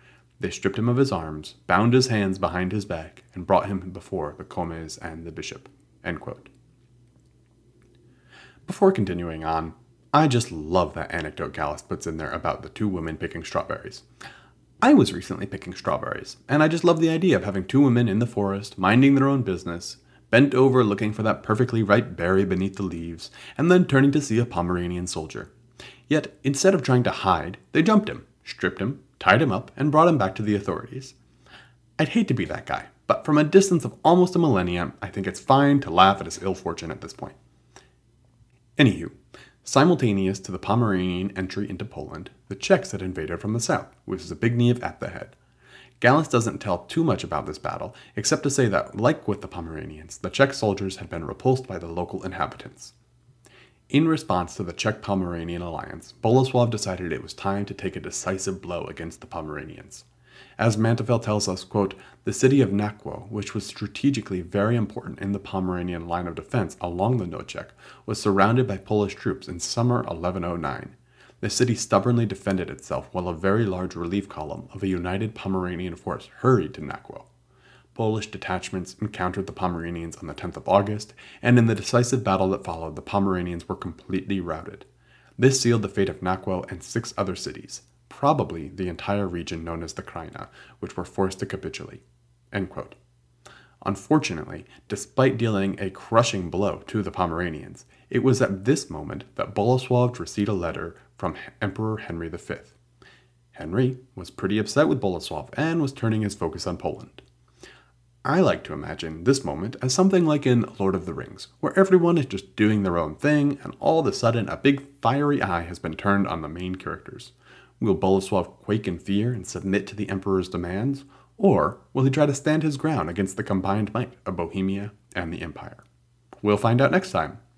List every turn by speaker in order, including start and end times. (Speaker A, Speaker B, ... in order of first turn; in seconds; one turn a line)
Speaker A: 0.4-6.5
Speaker A: 8.7-14.1
Speaker A: 14.8-25.5
Speaker A: 26.1-31.1
Speaker A: 32.0-37.4
Speaker A: 38.8-45.4
Speaker A: 46.0-53.0
Speaker A: 53.9-60.0
Speaker A: 60.6-77.3
Speaker A: 78.0-93.0
Speaker A: 93.8-102.8
Speaker A: 103.5-107.2
Speaker A: 108.2-125.8
Speaker A: 126.4-127.4